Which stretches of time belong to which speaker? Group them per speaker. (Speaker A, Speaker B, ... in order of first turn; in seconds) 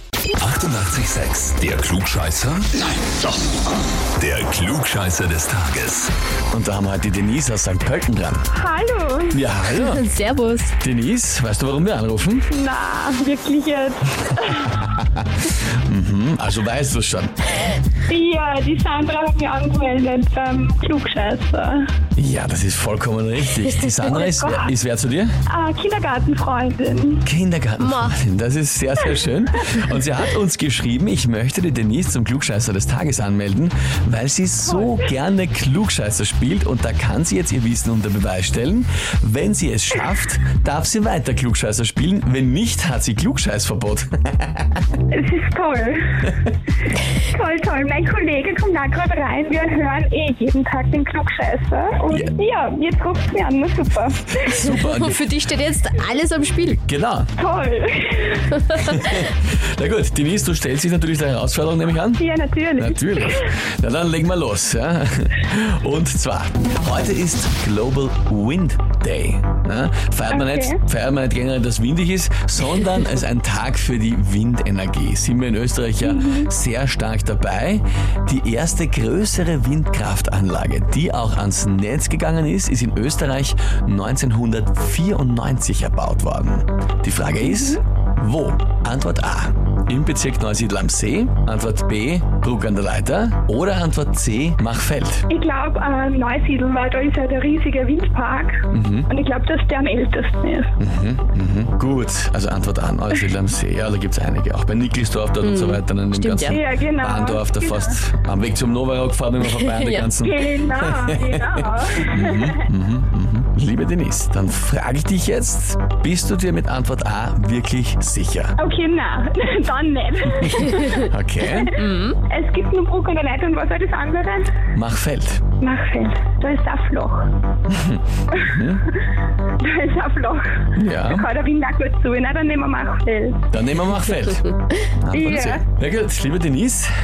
Speaker A: 0.4-3.2, 4.2-6.1
Speaker B: 6.5-8.4, 9.3-10.1, 10.8-12.5, 15.9-17.3, 22.2-25.3, 27.2-44.7, 54.3-55.3, 56.9-57.3, 58.7-62.2, 62.8-95.3, 98.7-99.1, 100.8-118.6, 120.4-121.7, 124.7-125.4, 127.7-128.8, 130.8-131.3, 133.5-136.9
Speaker C: 8.5-9.4, 12.5-14.8, 18.1-21.9, 24.0-24.7, 25.5-27.2, 34.7-35.0, 45.1-46.3, 47.1-54.6, 57.4-58.7, 62.2-63.5, 70.3-70.8, 76.0-76.5, 87.4-87.8, 95.3-100.7, 106.5-108.0, 110.2-112.6, 118.6-124.5, 125.6-127.3, 128.3-128.6, 129.6-133.5, 135.1-135.6
Speaker D: 9.8-10.8, 27.8-28.1, 54.6-56.8, 105.4-106.6, 109.6-110.1, 121.8-122.2